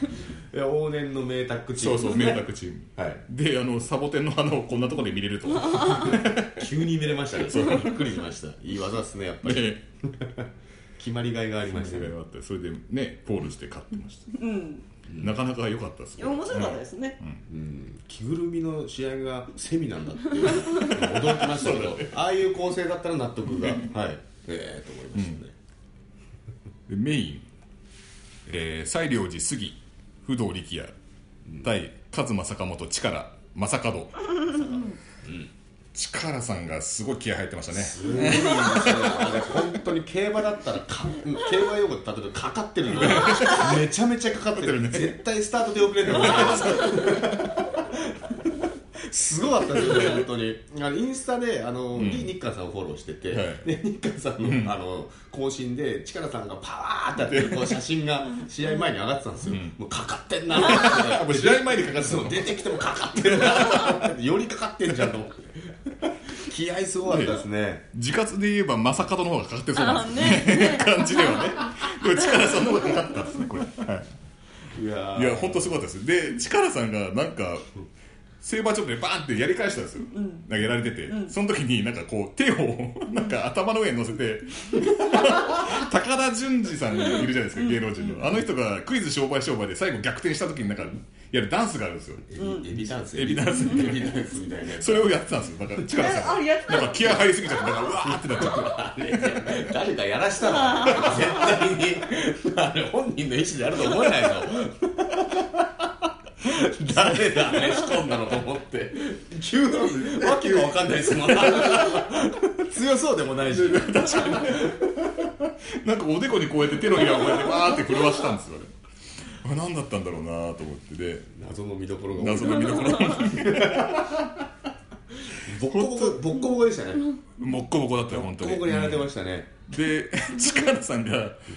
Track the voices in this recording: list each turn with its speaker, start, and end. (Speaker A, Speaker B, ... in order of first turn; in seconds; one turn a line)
Speaker A: 0.5-2.4
Speaker B: 1.8-6.7
Speaker A: 3.0-3.2
Speaker C: 5.6-6.1
Speaker A: 6.0-12.1
Speaker B: 7.4-8.0
Speaker B: 9.4-9.8
Speaker B: 11.7-14.3
Speaker C: 14.3-14.8
Speaker A: 15.1-15.3
Speaker B: 15.2-17.4
Speaker C: 16.2-17.2
Speaker A: 17.5-25.6
Speaker B: 20.7-22.2
Speaker B: 23.5-23.9
Speaker B: 26.9-27.5
Speaker B: 28.4-30.9
Speaker B: 31.6-34.7
Speaker C: 34.7-34.9
Speaker A: 35.2-35.5
Speaker B: 35.9-39.6
Speaker A: 37.7-67.9
Speaker B: 42.9-43.9
Speaker B: 44.5-45.2
Speaker B: 46.1-47.1
Speaker C: 46.7-47.1
Speaker B: 51.9-52.3
Speaker B: 53.3-53.6
Speaker B: 54.4-54.7
Speaker B: 57.2-57.8
Speaker B: 59.5-59.7
Speaker B: 60.5-64.0
Speaker B: 67.1-67.4
Speaker B: 67.9-74.1
Speaker C: 69.7-73.0
Speaker A: 74.7-75.8
Speaker B: 75.1-77.7
Speaker B: 78.4-92.3
Speaker C: 80.1-80.5
Speaker C: 81.1-81.3
Speaker C: 87.1-88.2
Speaker A: 92.3-95.2
Speaker C: 92.4-92.7
Speaker B: 93.1-99.5
Speaker C: 95.9-97.3
Speaker A: 97.7-115.3
Speaker C: 100.5-101.3
Speaker B: 109.9-112.1
Speaker B: 113.5-118.7
Speaker B: 119.4-121.3
Speaker A: 121.3-124.4
Speaker B: 122.1-124.2
Speaker A: 125.2-127.1
Speaker B: 125.7-126.2
Speaker B: 127.4-129.1
Speaker A: 128.1-129.5
Speaker B: 129.7-131.4